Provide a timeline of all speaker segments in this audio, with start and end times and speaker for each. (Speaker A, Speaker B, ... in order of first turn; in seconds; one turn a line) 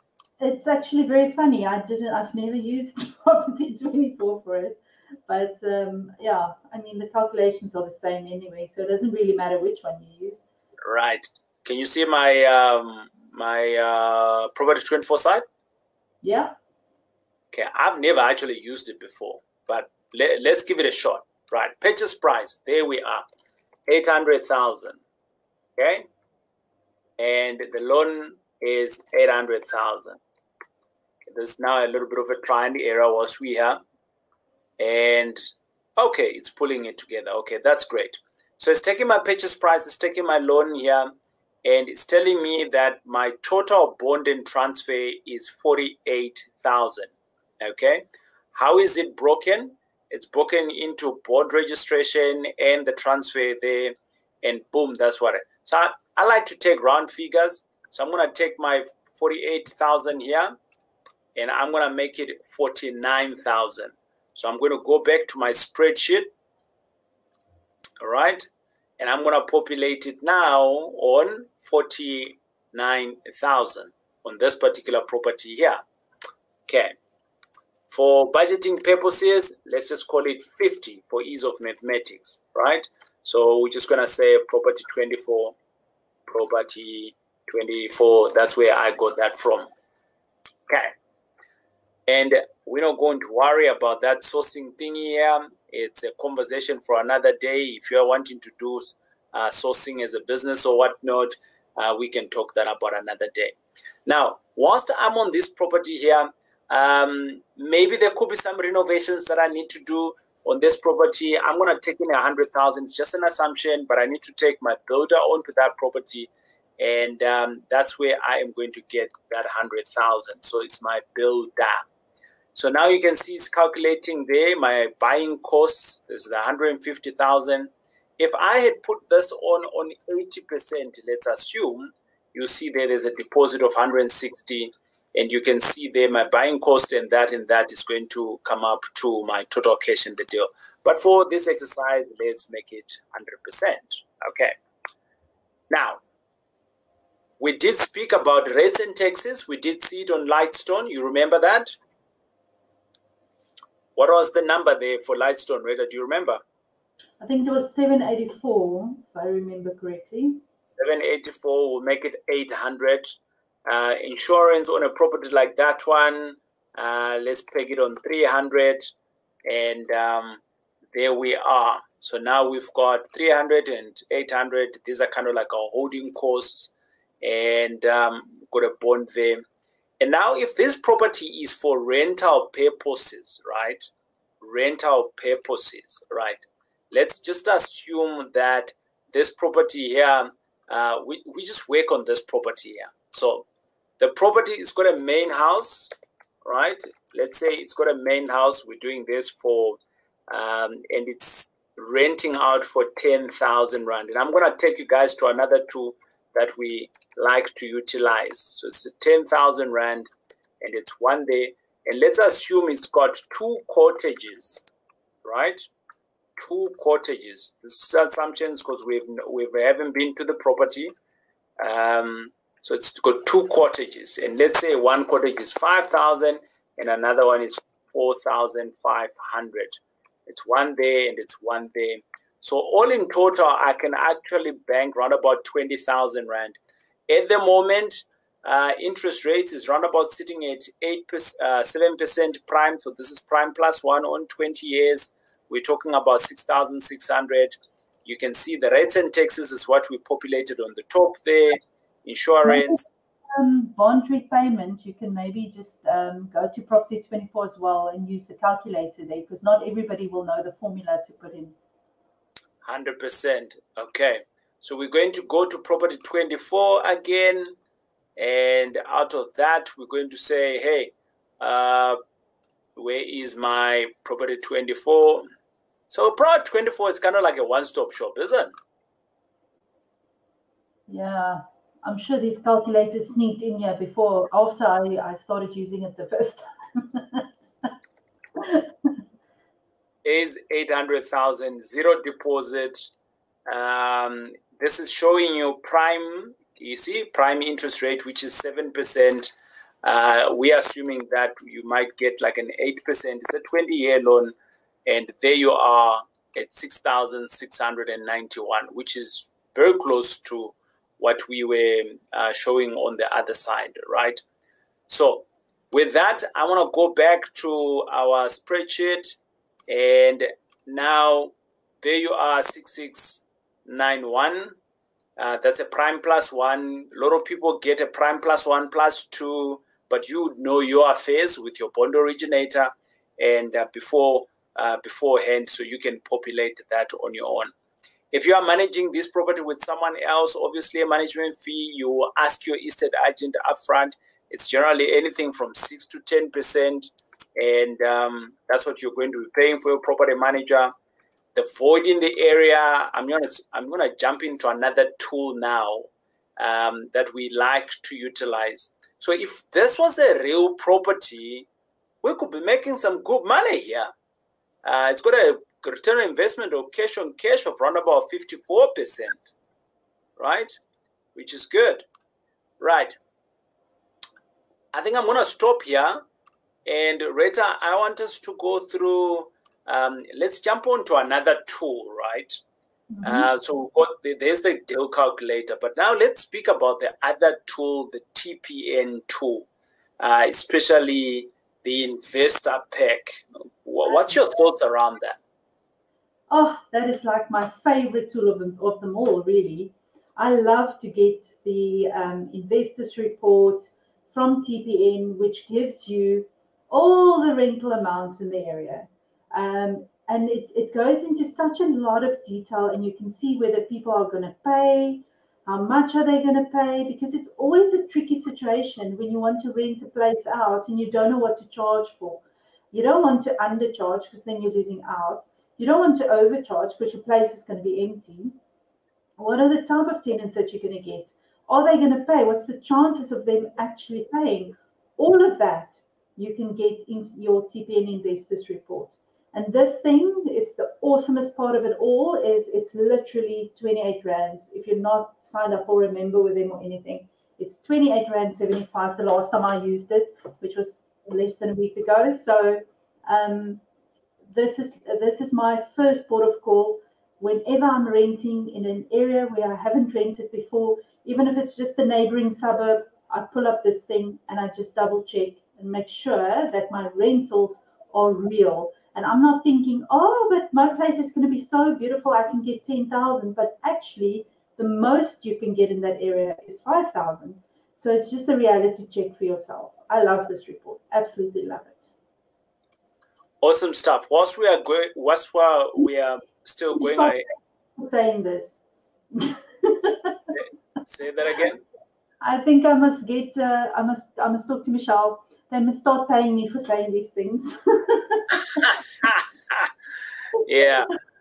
Speaker A: 0.4-10.4
Speaker B: 10.8-15.4
Speaker A: 16.2-16.5
Speaker B: 17.5-23.2
Speaker B: 23.9-25.0
Speaker B: 25.8-26.1
Speaker B: 27.2-30.2
Speaker B: 31.3-33.8
Speaker B: 34.8-41.1
Speaker B: 41.6-60.5
Speaker B: 61.3-66.3
Speaker B: 68.0-68.5
Speaker B: 69.0-75.8
Speaker B: 76.7-76.9
Speaker B: 77.9-85.5
Speaker B: 86.3-89.7
Speaker B: 92.1-121.8
Speaker B: 122.5-144.5
Speaker B: 145.7-146.0
Speaker B: 147.4-151.8
Speaker B: 153.9-156.4
Speaker A: 157.2-160.4
Speaker B: 160.8-163.1
Speaker B: 163.7-168.9
Speaker B: 169.4-170.4
Speaker B: 170.9-179.4
Speaker B: 180.0-193.4
Speaker B: 194.0-195.9
Speaker B: 196.4-210.1
Speaker B: 210.6-214.6
Speaker B: 215.2-215.7
Speaker B: 216.4-220.9
Speaker B: 221.6-247.5
Speaker B: 248.0-252.9
Speaker A: 252.4-252.8
Speaker A: 253.3-261.5
Speaker B: 262.6-267.5
Speaker B: 268.2-272.0
Speaker B: 272.8-275.2
Speaker B: 275.9-278.5
Speaker A: 280.9-287.7
Speaker A: 288.4-288.9
Speaker B: 290.0-292.9
Speaker B: 293.5-299.3
Speaker B: 299.8-304.3
Speaker B: 304.9-314.2
Speaker B: 314.9-319.1
Speaker B: 319.7-324.6
Speaker B: 325.2-337.5
Speaker B: 338.1-350.7
Speaker B: 351.3-361.5
Speaker B: 362.0-363.9
Speaker B: 364.6-369.3
Speaker B: 370.2-370.6
Speaker B: 371.1-371.9
Speaker B: 372.6-373.0
Speaker B: 374.7-376.0
Speaker B: 376.6-382.4
Speaker A: 382.9-383.3
Speaker B: 383.0-389.5
Speaker B: 390.0-395.2
Speaker A: 396.3-428.4
Speaker A: 429.2-453.6
Speaker A: 454.3-481.9
Speaker B: 483.4-487.3
Speaker A: 486.8-488.6
Speaker A: 489.1-490.2
Speaker B: 490.3-491.6
Speaker A: 492.2-498.4
Speaker B: 499.0-499.7
Speaker B: 500.4-500.9